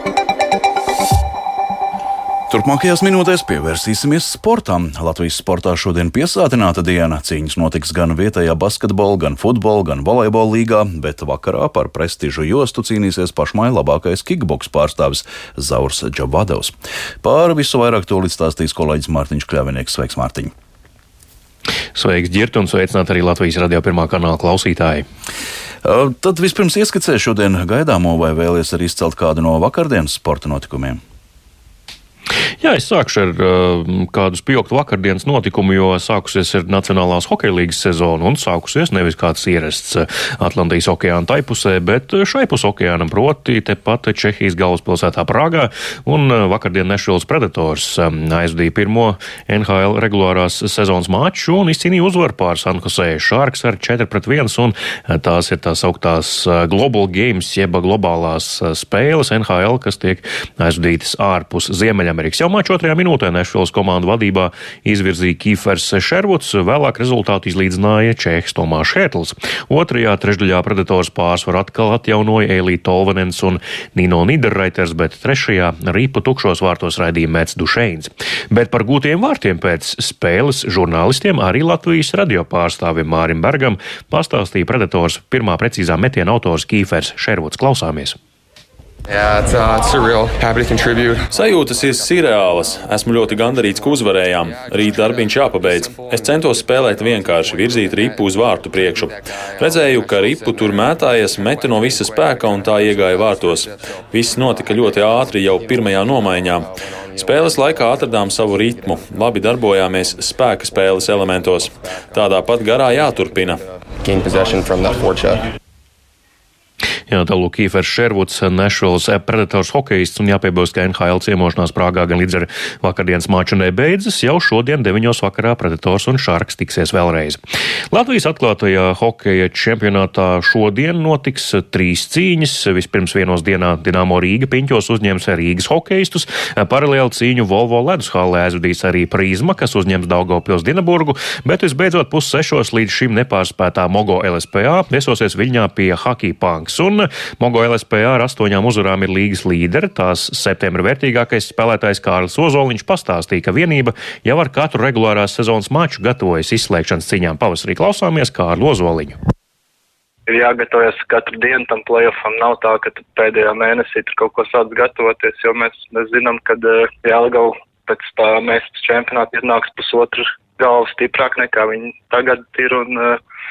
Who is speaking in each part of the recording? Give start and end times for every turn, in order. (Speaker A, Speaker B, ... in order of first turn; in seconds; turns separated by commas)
Speaker A: 2.5-20.5, Speaker B: 21.9-25.0, Speaker A: 25.8-31.0, Speaker B: 32.6-88.2, Speaker C: 89.2-91.3, Speaker D: 91.3-113.6, Speaker C: 114.0-115.4, Speaker B: 117.1-127.4, Speaker B: 127.9-159.2, Speaker E: 160.3-173.2